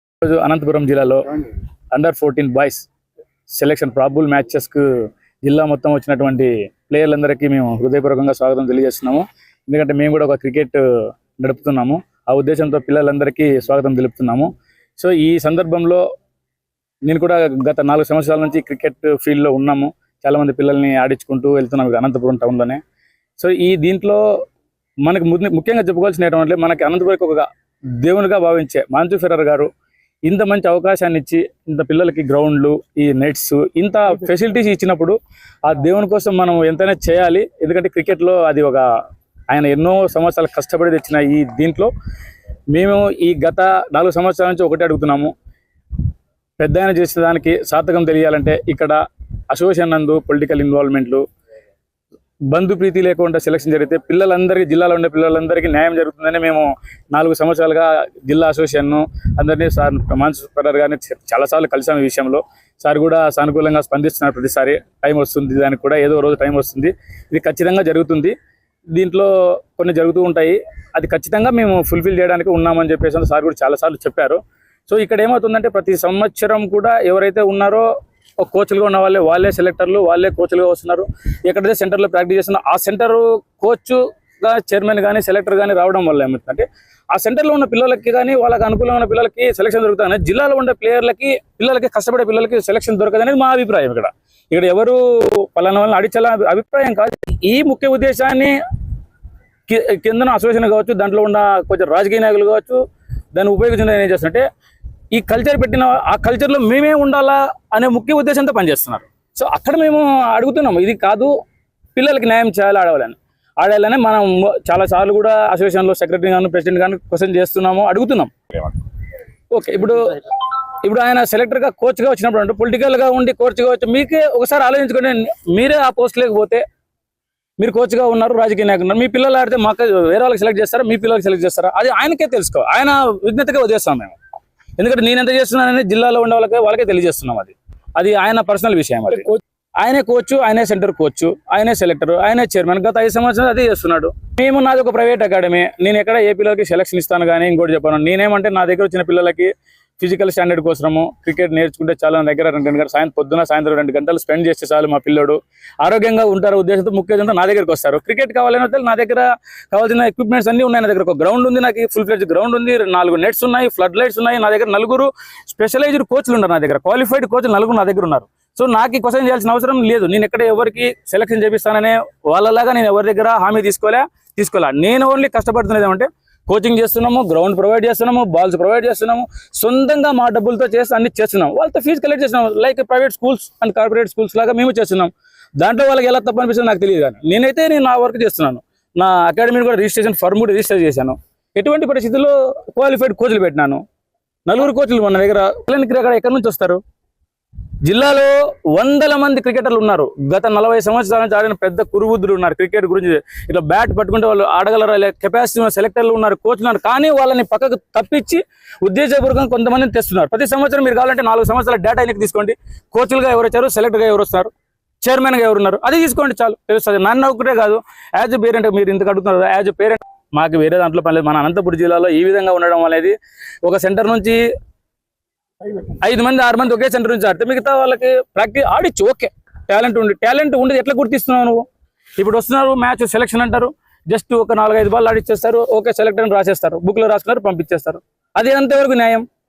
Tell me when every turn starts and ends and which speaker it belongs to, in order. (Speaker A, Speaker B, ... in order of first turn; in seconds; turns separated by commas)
Speaker A: 0.2-1.2, Speaker A: 1.9-2.9, Speaker A: 3.5-4.8, Speaker A: 5.4-10.8, Speaker A: 11.4-16.0, Speaker A: 17.0-22.8, Speaker A: 23.4-24.2, Speaker A: 25.0-27.4, Speaker A: 28.0-29.7, Speaker A: 30.2-38.8, Speaker A: 39.5-41.9, Speaker A: 42.7-45.3, Speaker A: 46.6-49.0, Speaker A: 49.5-51.2, Speaker A: 52.5-68.3, Speaker A: 68.9-77.9, Speaker A: 78.4-98.5, Speaker A: 99.7-102.8, Speaker A: 103.3-104.4, Speaker A: 105.1-111.3, Speaker A: 112.0-118.8, Speaker A: 119.5-126.6, Speaker A: 127.6-134.2, Speaker A: 134.8-193.8, Speaker A: 194.4-196.8, Speaker A: 197.8-214.5, Speaker A: 215.0-224.4, Speaker A: 225.9-231.6, Speaker A: 232.2-239.2